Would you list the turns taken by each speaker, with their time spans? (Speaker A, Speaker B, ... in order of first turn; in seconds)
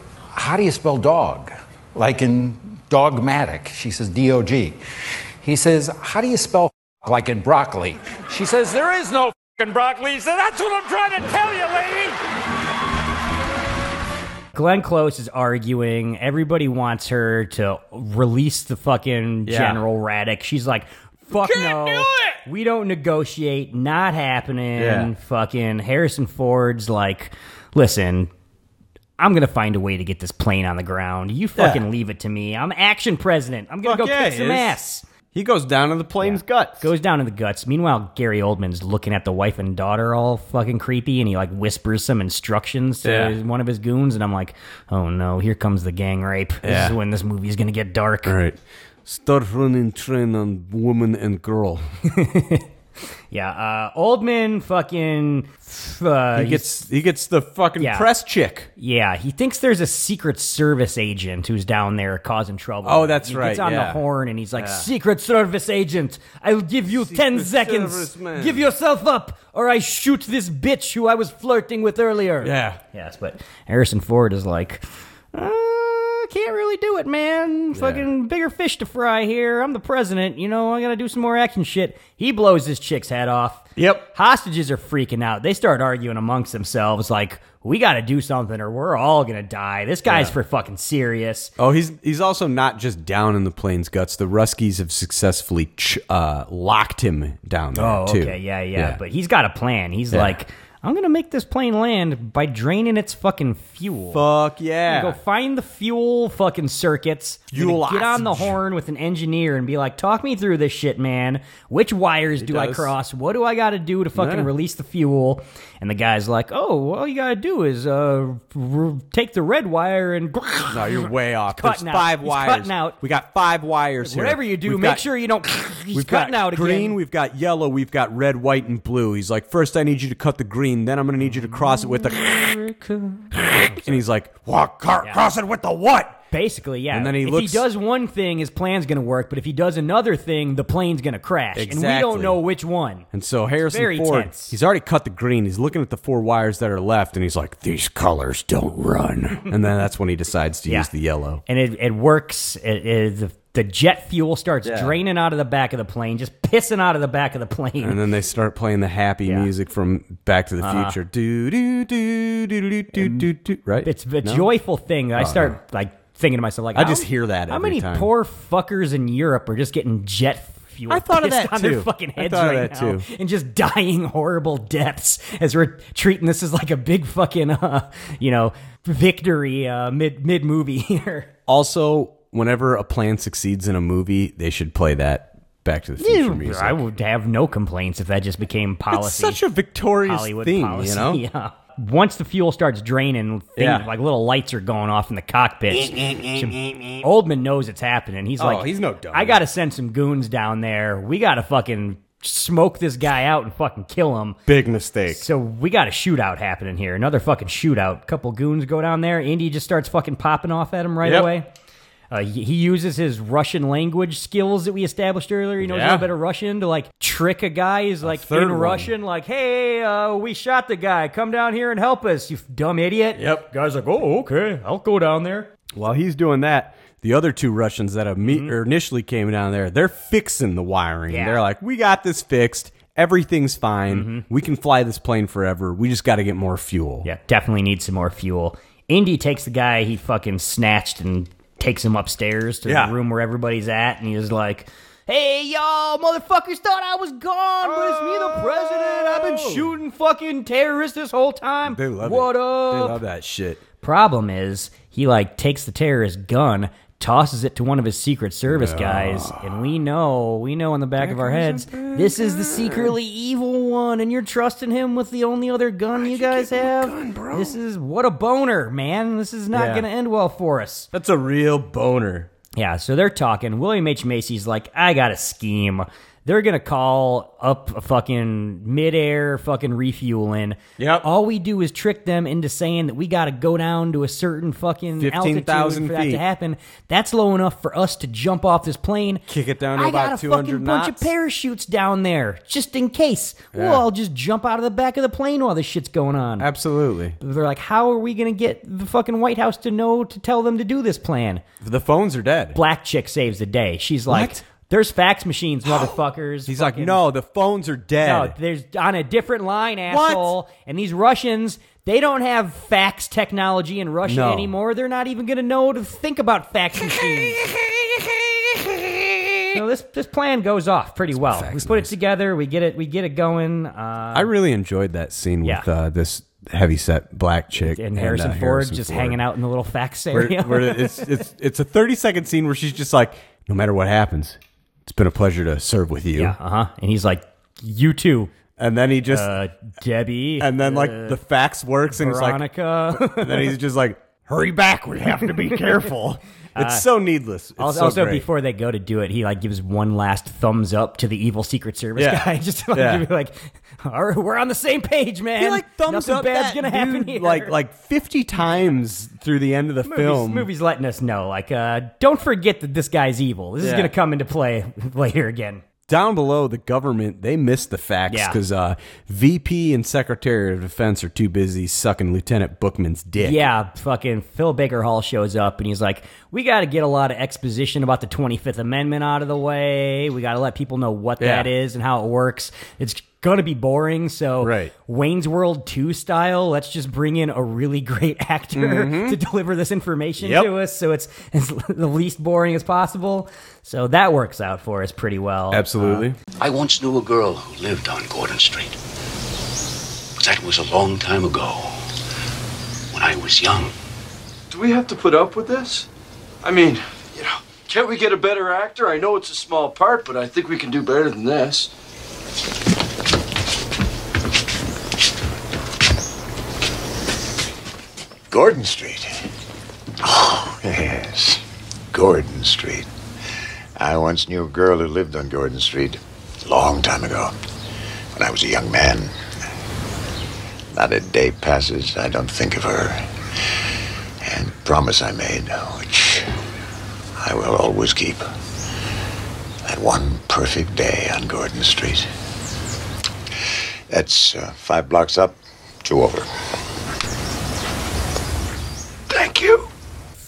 Speaker A: 0.3-4.8, 5.4-12.2
Speaker B: 14.5-28.3, 29.2-35.0, 36.2-48.4, 52.1-52.6, 53.3-56.7, 57.8-58.1, 58.8-91.5, 97.7-104.2, 104.8-123.0, 124.0-127.0, 136.3-143.1, 143.6-144.6, 151.4-158.0, 160.6-160.9, 162.9-163.3, 163.8-181.3, 186.0-189.4, 190.0-204.4, 205.1-211.5, 212.1-225.5, 228.2-228.5, 231.1-231.4, 233.9-234.2, 237.0-253.0, 253.8-270.9, 272.6-289.2, 289.7-296.5, 297.2-301.4, 302.5-307.0, 308.0-317.4, 319.5-324.3, 327.5-331.1, 336.1-338.3, 339.1-341.2, 341.9-343.6, 346.6-346.9, 347.6-357.5, 358.4-358.7, 359.8-365.6, 368.1-368.4, 373.2-396.0
Speaker C: 19.4-19.8, 21.4-22.3, 24.8-25.1, 31.6-31.8, 33.8-34.8, 35.3-36.9, 43.0-43.4, 46.6-47.0, 48.2-51.8, 56.3-58.7, 62.8-64.0, 64.5-64.9, 66.9-68.7, 72.4-72.8, 77.7-78.0, 83.8-84.1, 90.0-90.3, 91.6-99.0, 104.1-105.2, 107.5-108.6, 112.4-112.9, 114.2-114.5, 120.7-125.0, 125.9-136.2, 136.9-137.7, 141.5-142.4, 143.1-151.4, 154.6-154.9, 157.8-164.5, 165.2-165.6, 166.7-168.1, 170.9-173.1, 181.5-186.8, 188.9-191.2, 193.6-193.9, 195.7-197.0, 198.4-199.4, 204.5-205.2, 211.0-211.3, 215.6-216.1, 218.0-218.9, 223.2-223.5, 225.7-237.1, 242.6-242.9, 247.6-249.7, 251.6-253.6, 258.5-259.6, 261.0-262.9, 265.9-267.6, 269.5-269.9, 270.9-272.3, 280.8-281.1, 285.0-286.2, 289.3-291.1, 293.5-293.8, 296.4-297.2, 301.6-302.6, 304.1-304.4, 305.7-305.9, 306.5-308.3, 309.9-310.3, 314.0-314.5, 316.9-319.6, 321.1-321.9, 324.1-329.2, 330.1-336.4, 338.6-339.3, 340.4-348.2, 351.9-353.1, 355.4-360.5, 363.6-363.9, 365.9-373.4, 381.2-381.5, 384.4-384.7, 388.5-389.2, 390.2-390.5, 395.5-396.2
Speaker D: 396.4-398.8, 400.2-401.9, 402.9-403.7
Speaker E: 404.5-405.9, 406.4-411.7
Speaker F: 418.3-419.1, 420.0-422.9, 423.8-427.3, 428.1-429.1, 430.7-433.0, 434.2-436.3, 437.2-438.3, 439.6-442.1, 443.9-446.3